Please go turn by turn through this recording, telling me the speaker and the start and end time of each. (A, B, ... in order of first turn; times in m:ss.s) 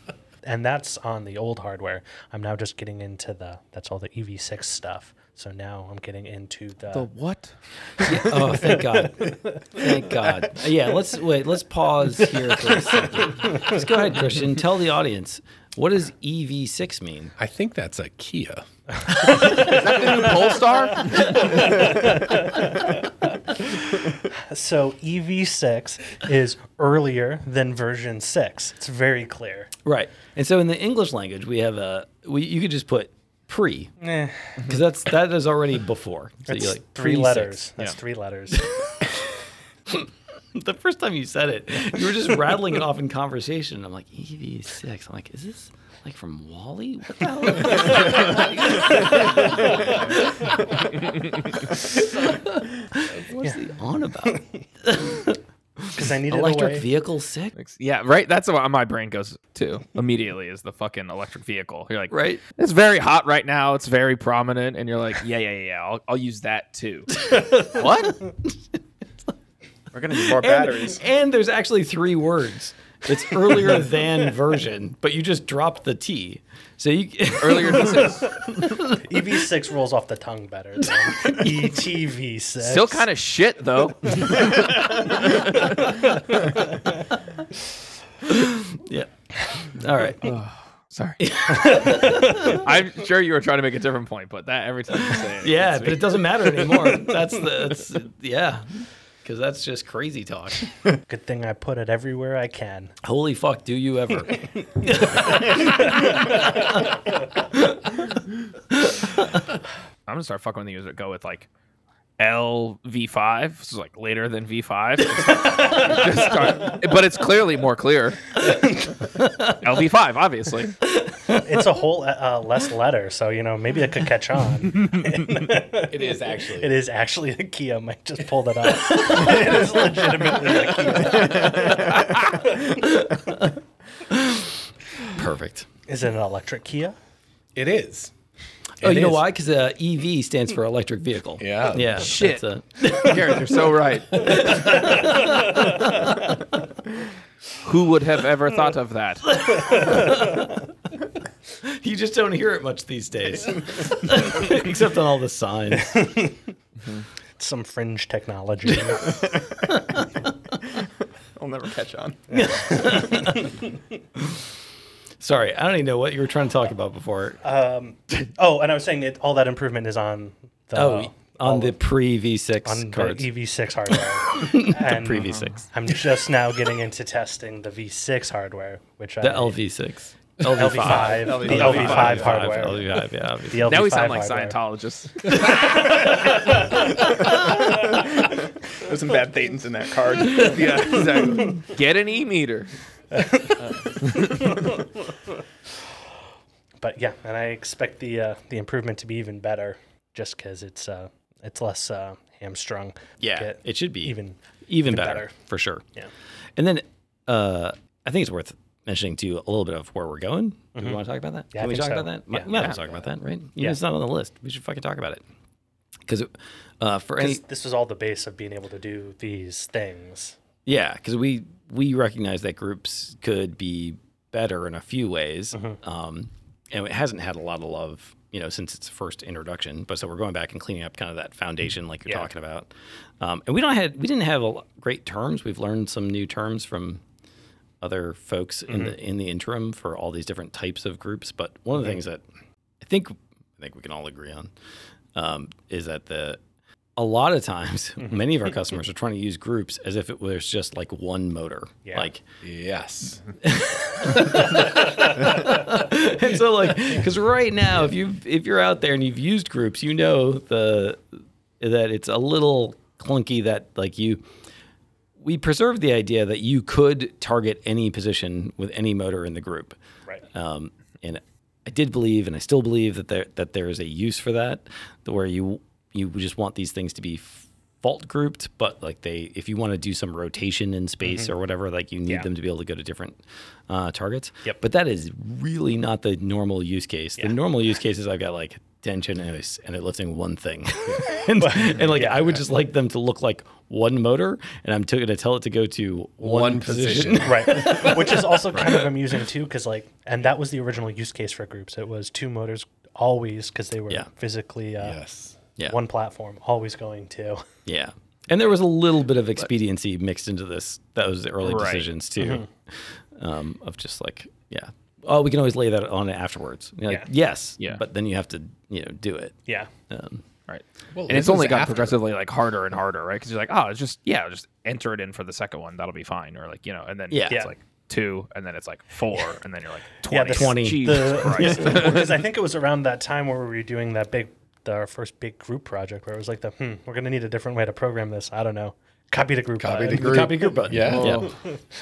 0:00.4-0:07.1 A
0:06.9-0:08.3 B
0:08.0-0:17.3 C
0:08.2-0:09.8 A
0:17.4-0:18.6 D
0:19.2-0:22.1 B
0:19.4-0:19.8 A
0:21.1-0:29.7 A
0:29.8-0:34.0 C
0:34.0-0:34.6 A
0:34.6-0:37.7 C
0:36.5-0:38.7 A
0:38.5-0:39.4 C
0:39.9-0:50.8 C
0:51.7-0:57.5 C
0:55.9-0:56.9 A
0:57.6-1:08.3 B
1:02.1-1:02.4 C
1:09.9-1:11.0 E
1:10.1-1:19.0 C
1:17.4-1:18.4 B
1:18.9-1:23.0 A
1:22.6-1:25.7 B
1:28.2-1:30.3 C
1:30.2-1:36.7 B
1:31.2-1:32.6 C
1:31.7-1:32.5 A
1:35.1-1:40.7 C
1:41.1-1:42.9 A
1:43.0-1:48.0 C
1:48.7-1:49.1 C
1:50.1-1:51.5 B
1:52.2-1:58.6 B
1:59.4-2:00.8 B
2:01.1-2:01.4 C
2:01.3-2:12.9 A
2:05.9-2:06.7 D
2:12.8-2:13.5 C
2:14.1-2:15.7 C
2:15.9-2:16.9 A
2:17.5-2:18.1 D
2:18.8-2:19.2 D
2:18.8-2:23.6 C
2:21.4-2:22.0 D
2:21.9-2:25.0 B
2:24.1-2:26.4 C
2:27.6-2:29.9 B
2:29.3-2:30.7 C
2:31.6-2:36.0 C
2:35.7-2:36.4 A
2:37.4-2:39.2 A
2:39.7-2:40.2 C
2:41.4-2:42.4 E
2:42.3-2:43.6 A
2:42.3-2:43.6 C
2:44.2-2:44.5 C
2:45.2-2:47.4 C
2:47.4-2:51.8 A
2:50.7-2:53.3 C
2:52.6-2:59.6 A
2:54.3-2:55.7 C
2:59.2-3:03.7 C
3:00.5-3:02.8 A
3:00.8-3:02.6 E
3:01.5-3:02.5 B
3:03.5-3:04.6 A
3:03.6-3:06.0 B
3:07.7-3:11.0 E
3:10.3-3:12.7 B
3:13.1-3:13.5 A
3:13.9-3:14.4 B
3:16.8-3:25.3 A
3:23.2-3:24.2 C
3:24.7-3:25.8 C
3:26.6-3:35.2 C
3:30.7-3:31.0 A
3:31.5-3:32.5 A
3:32.5-3:32.8 B
3:36.1-3:37.4 C
3:37.2-3:40.4 A
3:40.6-3:57.0 C
3:57.8-4:02.2 C
3:58.7-3:58.9 A
4:02.8-4:04.5 C
4:05.1-4:06.4 C
4:07.0-4:12.2 C
4:12.4-4:13.3 D
4:13.4-4:24.2 C
4:25.2-4:29.8 C
4:30.3-4:58.9 C
4:51.4-4:52.4 A
4:56.2-4:58.0 D
4:57.2-5:05.0 A
5:04.8-5:05.4 D
5:05.6-5:07.4 A
5:07.6-5:20.2 C
5:11.4-5:11.9 B
5:20.5-5:32.2 B
5:20.9-5:22.0 D
5:27.1-5:27.4 C
5:30.1-5:40.3 A
5:30.3-5:31.9 C
5:39.6-5:41.2 D
5:39.9-5:41.3 C
5:40.8-5:41.3 B
5:41.2-5:41.6 A